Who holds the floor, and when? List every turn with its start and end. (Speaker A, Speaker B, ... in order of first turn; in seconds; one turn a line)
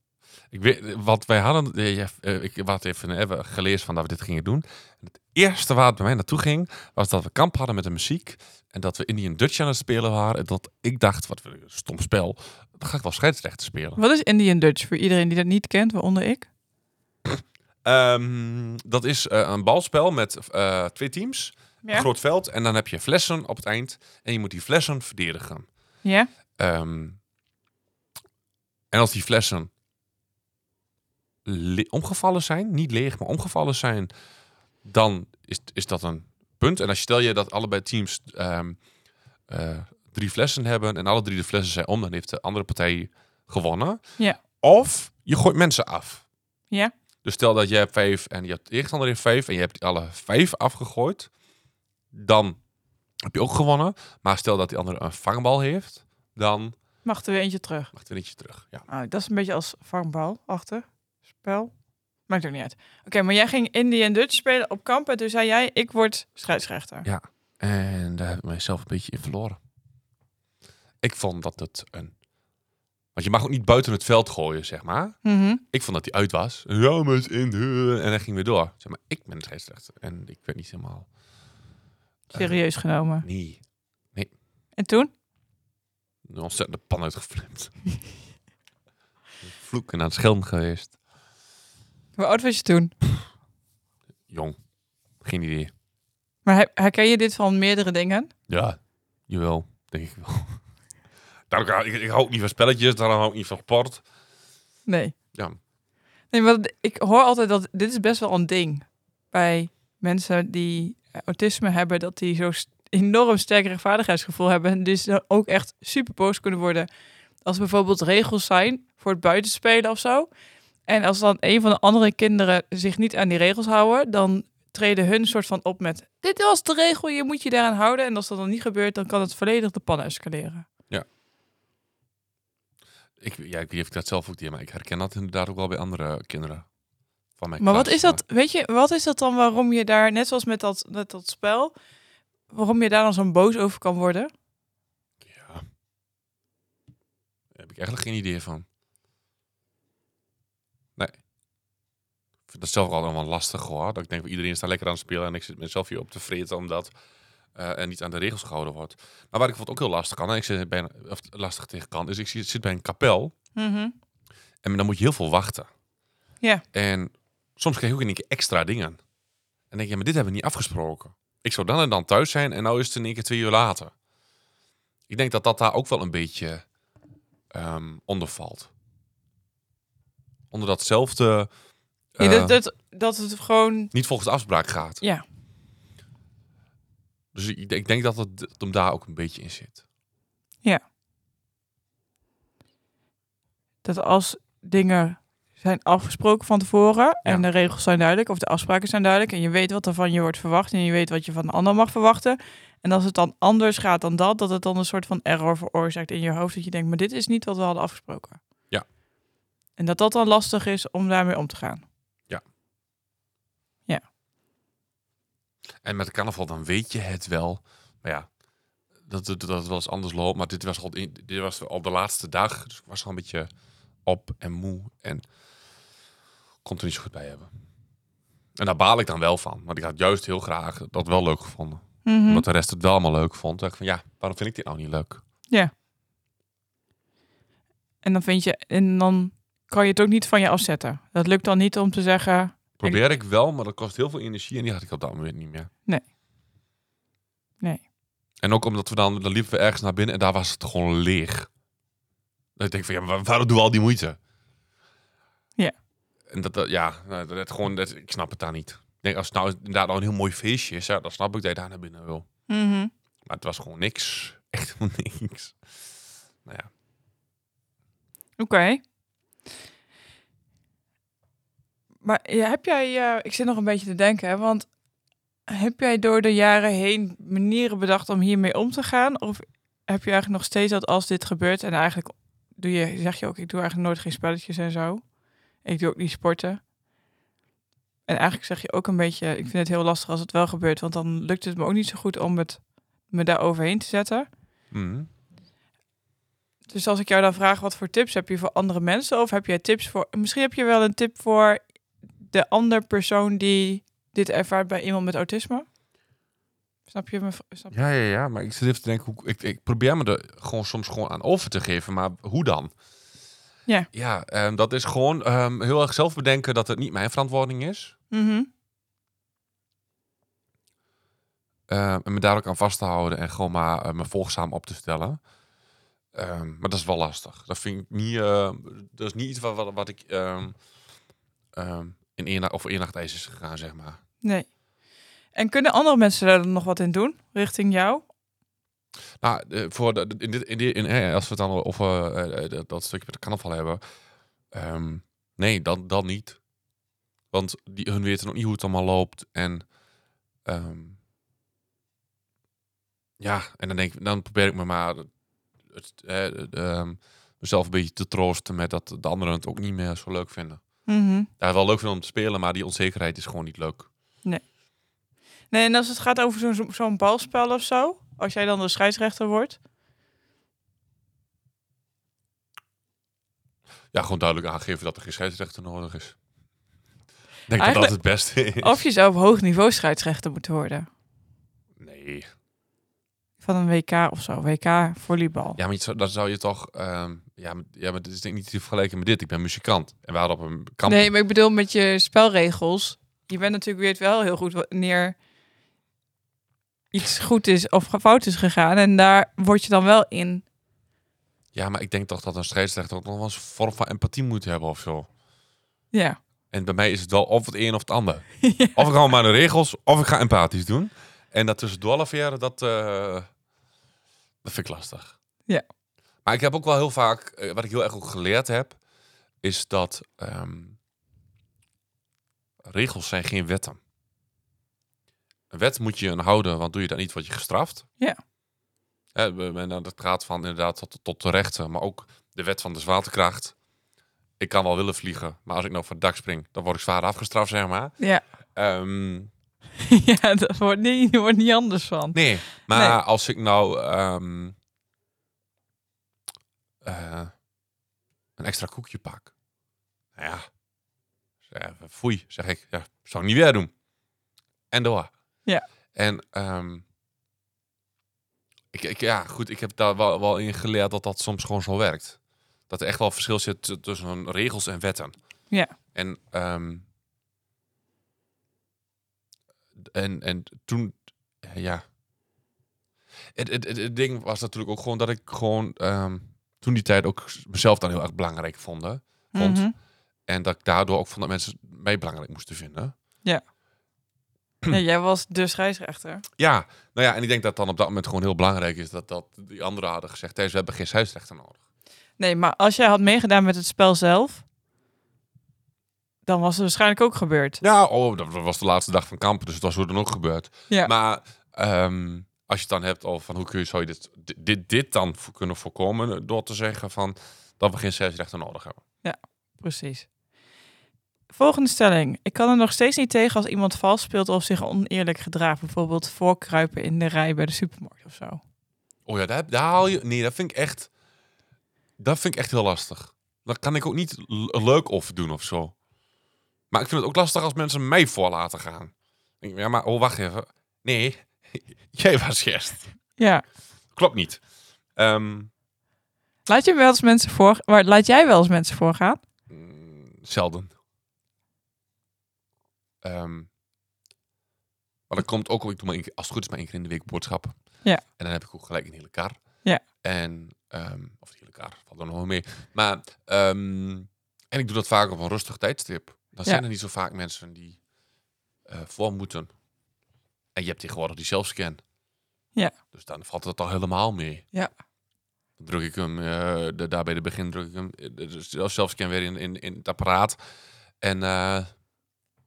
Speaker A: 0.5-14.0
Speaker B: 14.0-16.4
Speaker A: 17.2-25.7
Speaker B: 26.0-26.3
Speaker A: 26.6-27.2
Speaker A: 28.9-29.7
Speaker A: 31.4-34.1
Speaker A: 34.8-38.8
Speaker A: 39.5-44.0
Speaker A: 44.6-46.2
Speaker A: 47.2-51.3
Speaker A: 52.1-52.6
Speaker A: 53.3-56.8
Speaker B: 57.0-57.9
Speaker A: 57.9-58.9
Speaker B: 58.9-61.7
Speaker B: 62.3-67.0
Speaker A: 67.0-69.6
Speaker A: 71.0-72.1
Speaker A: 73.1-75.2
Speaker B: 75.2-75.6
Speaker A: 75.7-81.1
Speaker B: 82.3-83.2
Speaker A: 83.2-83.6
Speaker B: 84.8-85.1
Speaker A: 86.3-87.7
Speaker A: 89.4-90.9
Speaker B: 92.2-92.9
Speaker A: 94.3-94.6
Speaker A: 95.2-95.7
Speaker B: 96.4-98.3
Speaker A: 98.5-100.6
Speaker A: 101.5-104.0
Speaker B: 104.8-105.1
Speaker B: 106.3-116.9
Speaker B: 117.4-120.3
Speaker B: 120.9-130.7
Speaker A: 133.2-136.7
Speaker A: 137.4-138.2
Speaker B: 137.6-141.7
Speaker B: 142.5-144.3
Speaker A: 145.2-145.6
Speaker A: 147.5-148.6
Speaker A: 152.5-156.9
Speaker A: 157.6-163.3
Speaker B: 163.5-163.9
Speaker A: 164.6-165.7
Speaker A: 166.7-169.0
Speaker A: 169.7-173.9
Speaker A: 175.1-176.6
Speaker A: 177.5-178.7
Speaker A: 180.5-181.5
Speaker A: 182.2-182.6
Speaker B: 182.2-183.9
Speaker A: 183.9-185.0
Speaker A: 187.3-189.8
Speaker B: 193.8-208.4
Speaker B: 209.8-211.8
Speaker A: 215.8-218.3
Speaker A: 219.1-223.5
Speaker A: 224.1-225.2
Speaker A: 226.6-227.5
Speaker A: 228.6-235.2
Speaker B: 232.1-232.4
Speaker B: 238.0-243.0
Speaker A: 242.8-245.7
Speaker A: 248.4-251.5
Speaker A: 252.6-254.2
Speaker A: 256.3-262.2
Speaker B: 262.5-262.9
Speaker A: 263.2-265.6
Speaker B: 268.4-268.8
Speaker B: 272.0-274.7
Speaker B: 275.5-285.0
Speaker B: 285.6-286.6
Speaker B: 288.1-294.3
Speaker A: 294.7-295.1
Speaker B: 296.7-301.6
Speaker B: 302.2-305.7
Speaker B: 306.9-307.7
Speaker A: 307.7-312.7
Speaker A: 313.9-317.9
Speaker B: 318.1-318.5
Speaker A: 321.7-325.2
Speaker A: 326.1-330.6
Speaker A: 331.6-334.0
Speaker B: 335.3-338.1
Speaker A: 339.2-343.8
Speaker A: 344.5-346.4
Speaker A: 347.3-349.6
Speaker A: 350.4-351.0
Speaker A: 353.2-355.1
Speaker A: 355.7-360.6
Speaker B: 360.9-361.3
Speaker A: 361.4-363.9
Speaker B: 365.5-369.6
Speaker A: 373.9-376.2
Speaker A: 377.5-378.8
Speaker B: 377.6-377.9
Speaker B: 378.6-380.9
Speaker A: 381.8-382.3
Speaker B: 383.4-385.6
Speaker A: 385.6-391.1
Speaker B: 390.8-395.2
Speaker B: 396.9-400.4
Speaker A: 401.5-405.1
Speaker B: 405.9-406.2
Speaker A: 406.5-413.3
Speaker B: 408.4-408.9
Speaker A: 414.4-415.2
Speaker A: 416.2-418.8
Speaker A: 419.4-420.8
Speaker A: 422.7-423.8
Speaker A: 425.5-427.9
Speaker A: 429.1-433.5
Speaker A: 434.4-437.9
Speaker A: 438.6-439.3
Speaker B: 439.8-442.9
Speaker A: 442.1-444.6
Speaker A: 446.8-447.3
Speaker A: 448.4-449.3
Speaker A: 450.2-450.5
Speaker A: 451.5-453.7
Speaker A: 454.7-455.1
Speaker A: 455.9-456.8
Speaker A: 458.7-462.2
Speaker A: 462.7-465.1
Speaker A: 465.9-466.8
Speaker A: 469.8-471.8
Speaker A: 473.4-479.7
Speaker B: 479.3-479.7
Speaker A: 480.3-482.9
Speaker B: 484.7-486.2
Speaker A: 486.4-491.6
Speaker B: 492.2-494.4
Speaker B: 496.2-497.6
Speaker A: 497.6-508.8
Speaker B: 509.0-510.1
Speaker B: 511.3-518.4
Speaker A: 519.1-520.9
Speaker A: 522.0-525.7
Speaker A: 526.7-532.9
Speaker B: 533.2-533.4
Speaker A: 533.9-534.4
Speaker A: 535.0-535.5
Speaker B: 536.5-539.2
Speaker A: 539.5-540.7
Speaker A: 543.0-543.5
Speaker A: 545.1-547.5
Speaker A: 548.2-549.4
Speaker A: 550.0-557.8
Speaker A: 558.7-559.5
Speaker A: 560.5-561.8
Speaker A: 562.9-564.4
Speaker A: 565.6-570.4
Speaker A: 571.0-571.7